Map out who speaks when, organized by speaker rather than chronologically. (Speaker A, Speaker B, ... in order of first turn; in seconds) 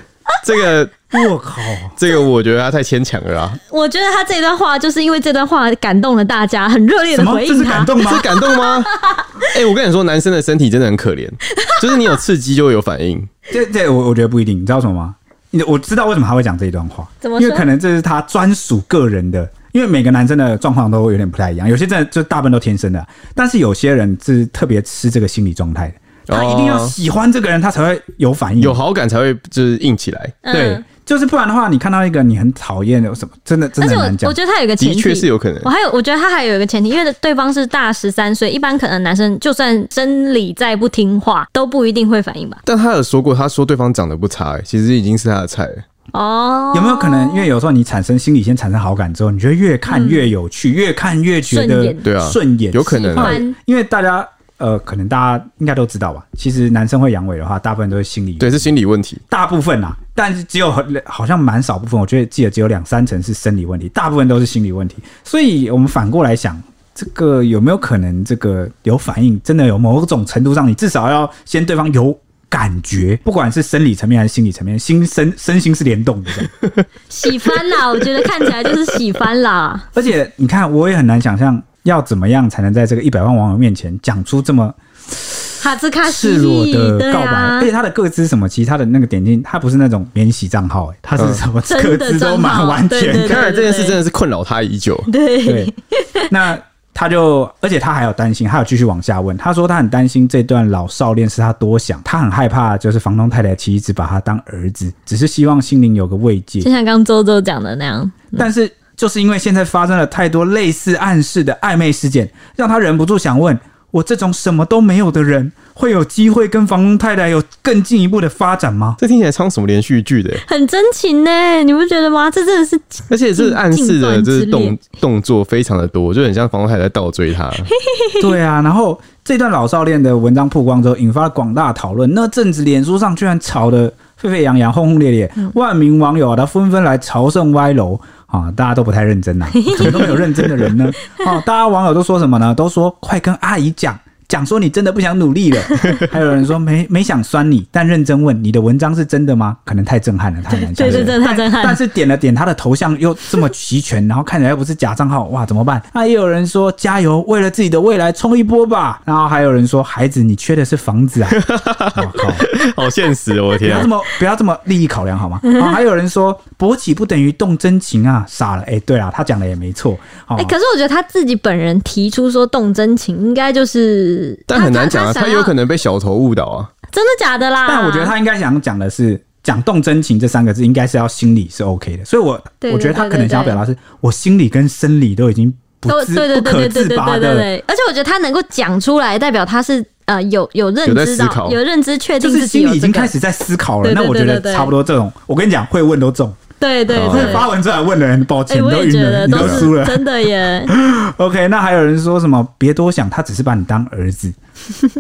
Speaker A: 0.4-1.2, 2.0-3.6, 8.0-13.3, 26.3-26.9, 28.6-30.4, 34.8-35.7, 42.6-45.8, 52.0-53.4, 58.4-59.2, 93.2-95.1, 119.0-120.4, 123.1-127.7, 150.8-151.1, 161.3-163.9, 174.5-176.7, 190.8-191.6, 196.9-197.5, 199.3-199.7
Speaker B: 1.1-2.0, 7.1-8.3, 13.5-28.8, 30.5-34.4, 46.7-58.7, 59.3-76.5, 79.9-85.5, 86.0-93.5, 95.5-95.7, 96.3-106.7, 108.4-119.0, 128.2-161.4, 161.9-162.5, 163.6-170.6, 177.7-187.5, 192.2-196.4, 197.0-200.1, 200.7-204.4
Speaker C: 3.7-9.5, 11.6-12.0, 17.2-17.7, 30.4-30.8, 33.8-42.6, 46.1-47.5, 49.9-50.3, 51.5-52.0, 52.9-53.6, 77.1-79.9, 85.6-87.7, 91.7-94.0, 95.1-96.3, 106.6-108.5, 120.5-124.8, 127.8-128.3, 139.5-140.2, 145.7-146.0, 150.5-151.8, 170.4-175.5, 176.9-178.1, 182.6-183.6, 185.9-193.1, 193.8-194.7, 196.6-197.5, 198.5-200.7